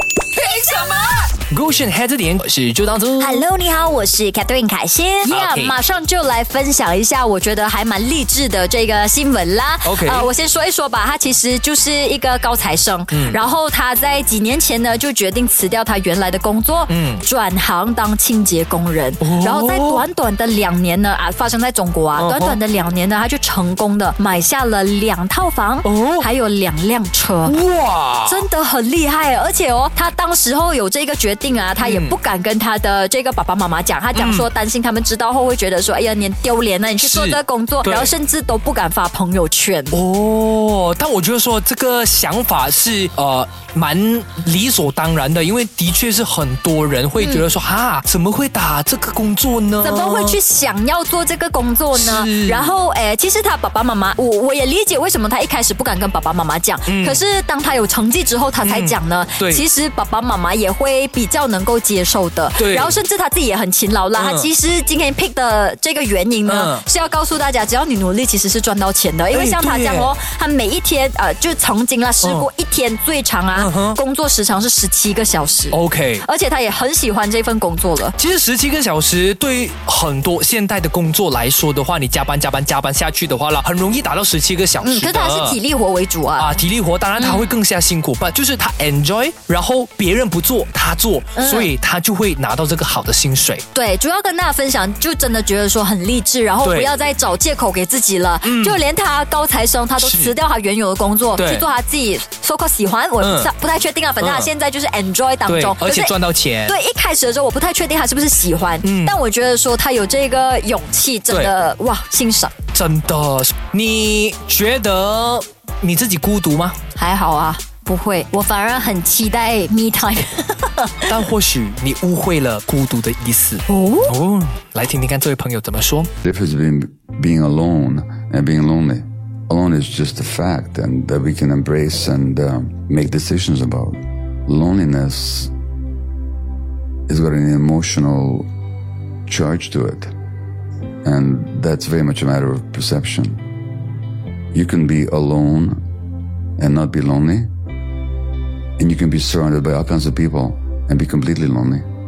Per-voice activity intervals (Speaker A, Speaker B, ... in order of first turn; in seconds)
Speaker A: 0.5-1.0, 3.2-27.6, 28.2-40.0, 47.2-47.4, 49.8-78.1, 84.8-86.6, 87.2-87.5, 91.3-91.7, 93.7-106.1, 106.7-112.5, 117.0-121.2, 123.7-124.1
Speaker B: 1.5-3.4, 5.3-5.7, 9.8-10.3, 13.1-13.4, 16.9-17.2, 19.2-20.0, 22.1-22.6, 25.8-26.2, 27.4-28.4, 31.8-32.1, 34.1-34.5, 37.0-38.1, 39.9-50.4, 51.9-52.7, 56.9-57.2, 58.6-59.6, 62.6-63.0, 64.1-64.5, 66.5-66.8, 69.3-70.1, 73.5-74.0, 75.7-76.2, 78.2-85.5, 86.4-93.6, 96.6-96.9, 98.4-98.8, 100.0-100.3, 101.4-101.7, 103.2-103.5, 104.2-104.5, 105.5-106.7, 108.8-109.1, 112.7-116.8, 121.1-126.1
Speaker C: 126.2-135.5, 137.1-138.5, 139.3-140.1, 141.0-143.4, 144.5-145.8, 146.6-147.5, 148.8-151.8